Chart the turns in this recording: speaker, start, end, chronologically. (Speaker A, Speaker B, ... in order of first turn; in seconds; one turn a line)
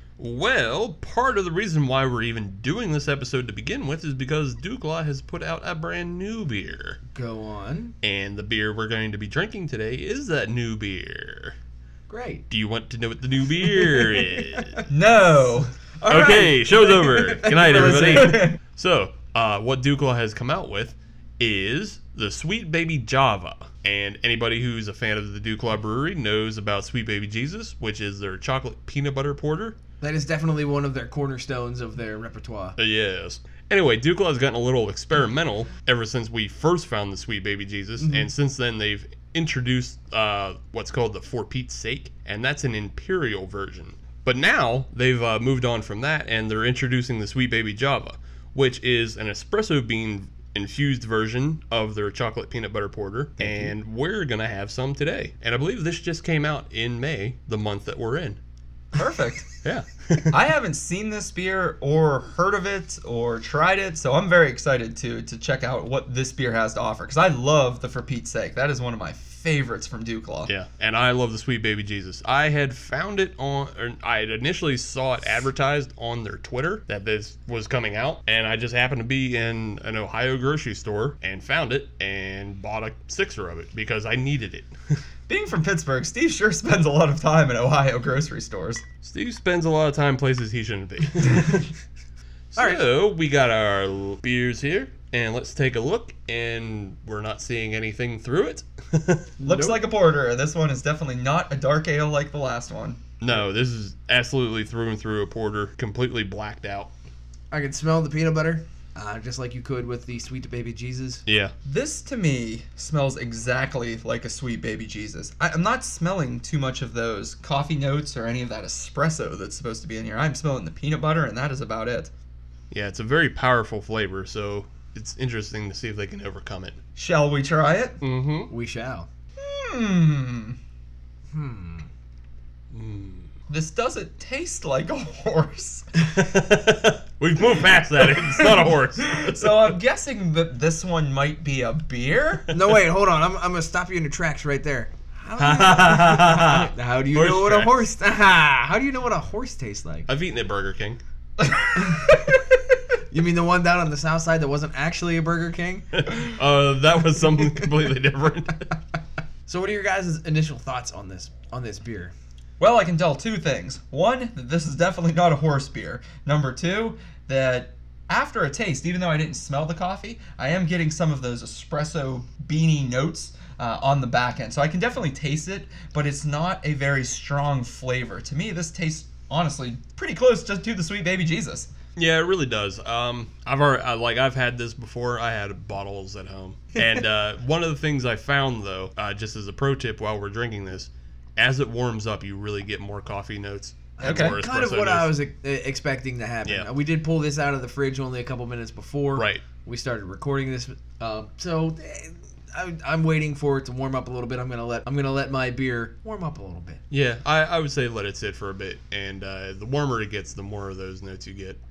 Speaker A: 0.2-7.0
Speaker B: 7.1-7.9
Speaker A: 8.0-11.6
Speaker B: 12.1-12.4
Speaker A: 12.5-14.8
Speaker B: 13.9-14.8
Speaker C: 14.9-15.7
Speaker B: 16.0-18.4
Speaker A: 16.1-29.8
Speaker C: 17.7-18.6
Speaker B: 30.0-32.8
Speaker A: 32.8-58.4
Speaker B: 38.0-38.3
Speaker C: 53.4-53.7
Speaker C: 58.9-59.5
Speaker A: 59.6-60.4
Speaker C: 60.3-70.5
Speaker A: 70.5-85.0
Speaker C: 85.3-88.8
Speaker A: 89.0-91.7
Speaker A: 92.5-99.3
Speaker B: 92.5-92.8
Speaker B: 99.4-99.8
Speaker C: 99.4-103.0
Speaker A: 103.2-106.9
Speaker B: 107.5-111.2
Speaker A: 111.3-111.5
Speaker C: 111.6-122.1
Speaker A: 122.7-126.8
Speaker C: 127.0-128.0
Speaker A: 128.0-128.5
Speaker B: 128.5-129.1
Speaker C: 129.4-130.6
Speaker B: 131.3-131.9
Speaker A: 132.7-133.3
Speaker C: 133.5-135.9
Speaker A: 136.0-139.7
Speaker C: 139.0-142.5
Speaker B: 142.5-150.1
Speaker A: 145.4-147.8
Speaker A: 150.1-151.0
Speaker C: 151.4-152.0
Speaker B: 151.7-156.0
Speaker A: 156.0-158.7
Speaker B: 159.5-162.1
Speaker C: 162.6-181.7
Speaker A: 181.9-195.1
Speaker B: 194.0-206.8
Speaker C: 194.0-194.4
Speaker A: 199.2-199.4
Speaker A: 206.9-211.6